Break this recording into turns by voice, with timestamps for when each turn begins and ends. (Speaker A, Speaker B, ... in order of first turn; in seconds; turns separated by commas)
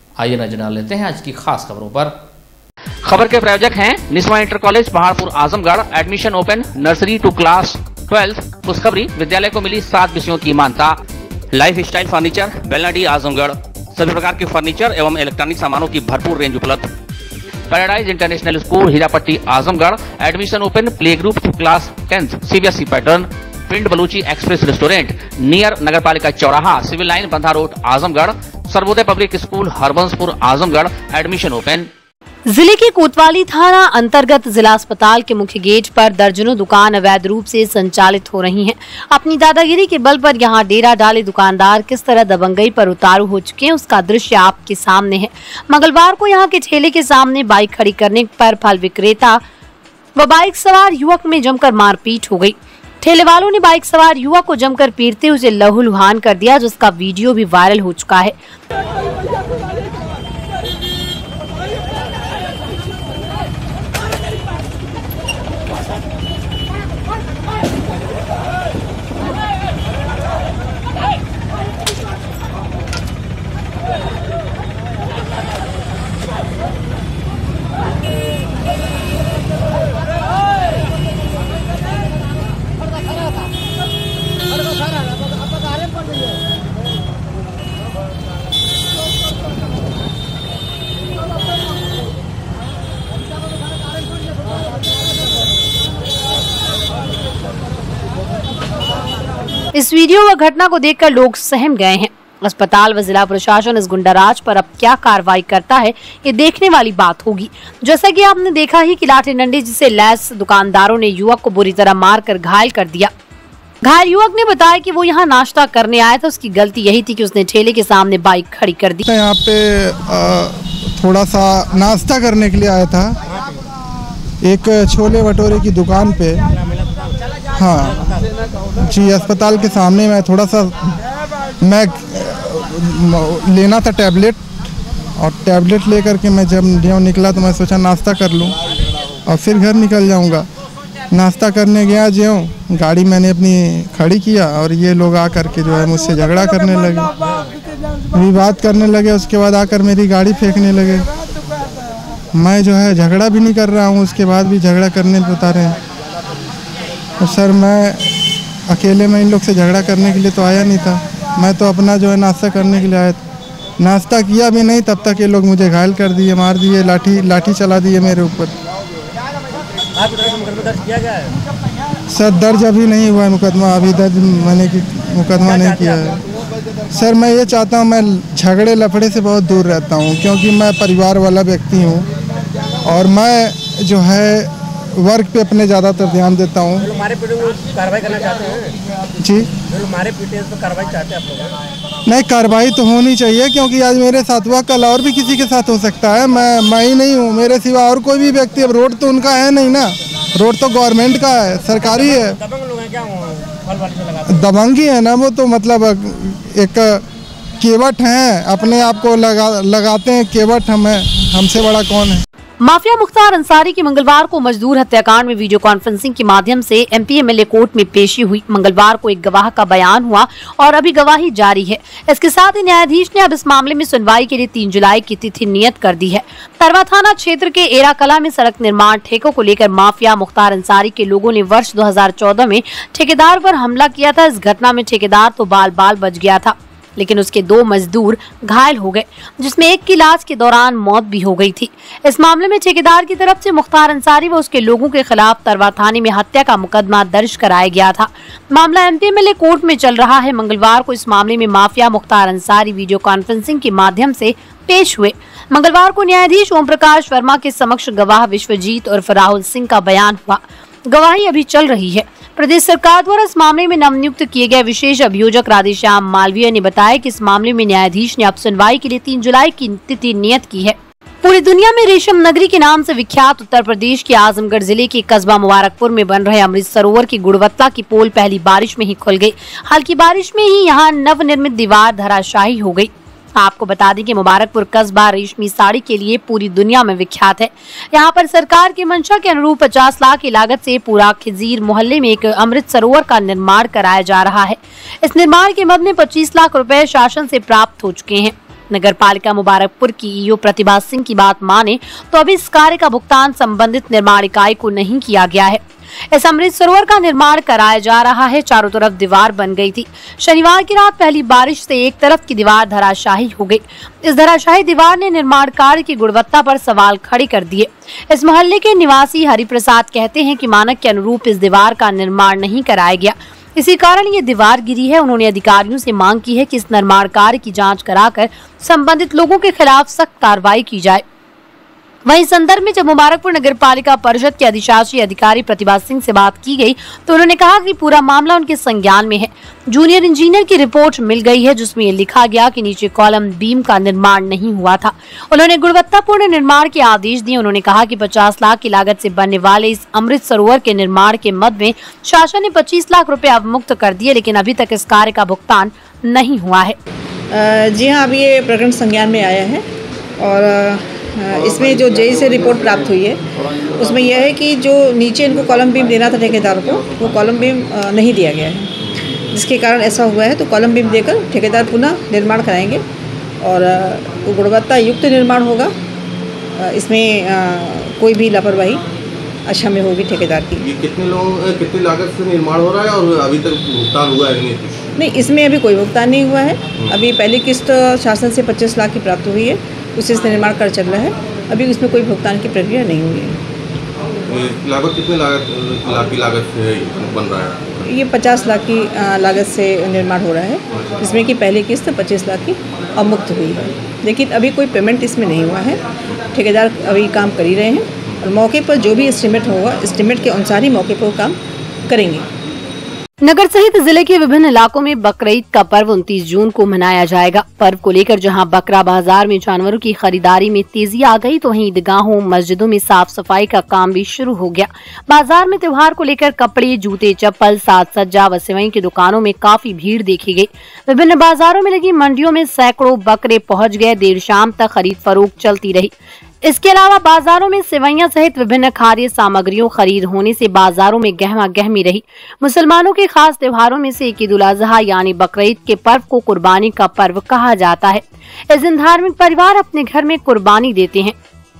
Speaker A: 0.2-2.1, Speaker B: 3.0-10.9, Speaker B: 11.6-16.8, Speaker B: 17.7-31.8, Speaker C: 32.5-49.4, Speaker C: 50.2-58.3, Speaker C: 99.7-113.1, Speaker C: 113.8-119.0, Speaker D: 119.0-123.2, Speaker E: 123.2-123.6, Speaker D: 124.4-126.4, Speaker E: 126.5-128.3, Speaker D: 127.5-128.0, Speaker D: 128.8-130.8, Speaker D: 131.6-134.4, Speaker D: 135.2-138.6, Speaker D: 139.3-140.5, Speaker D: 141.1-147.1, Speaker E: 147.2-147.5, Speaker D: 148.1-151.1, Speaker D: 152.3-155.8, Speaker D: 157.2-158.1, Speaker D: 158.7-163.2, Speaker D: 163.8-168.5, Speaker E: 169.9-171.3, Speaker D: 172.1-176.2, Speaker E: 175.4-176.1, Speaker D: 176.9-182.1, Speaker D: 182.8-186.8, Speaker E: 186.8-188.8, Speaker D: 189.2-189.5, Speaker E: 189.6-191.6, Speaker D: 192.1-202.4, Speaker E: 201.8-204.4, Speaker D: 204.3-207.0, Speaker D: 207.6-212.2, Speaker C: 212.6-331.0, Speaker C: 332.1-356.8, Speaker F: 357.3-359.6, Speaker F: 360.2-363.2, Speaker F: 363.7-368.7, Speaker F: 369.3-372.8, Speaker F: 373.4-375.7, Speaker F: 376.6-378.8, Speaker F: 379.5-380.6, Speaker G: 380.6-384.8, Speaker F: 385.0-393.4, Speaker G: 386.8-387.0, Speaker G: 394.3-397.9, Speaker F: 397.9-405.8, Speaker G: 400.7-401.1, Speaker F: 406.3-411.4, Speaker F: 411.9-412.2, Speaker C: 413.2-435.9, Speaker C: 436.4-451.1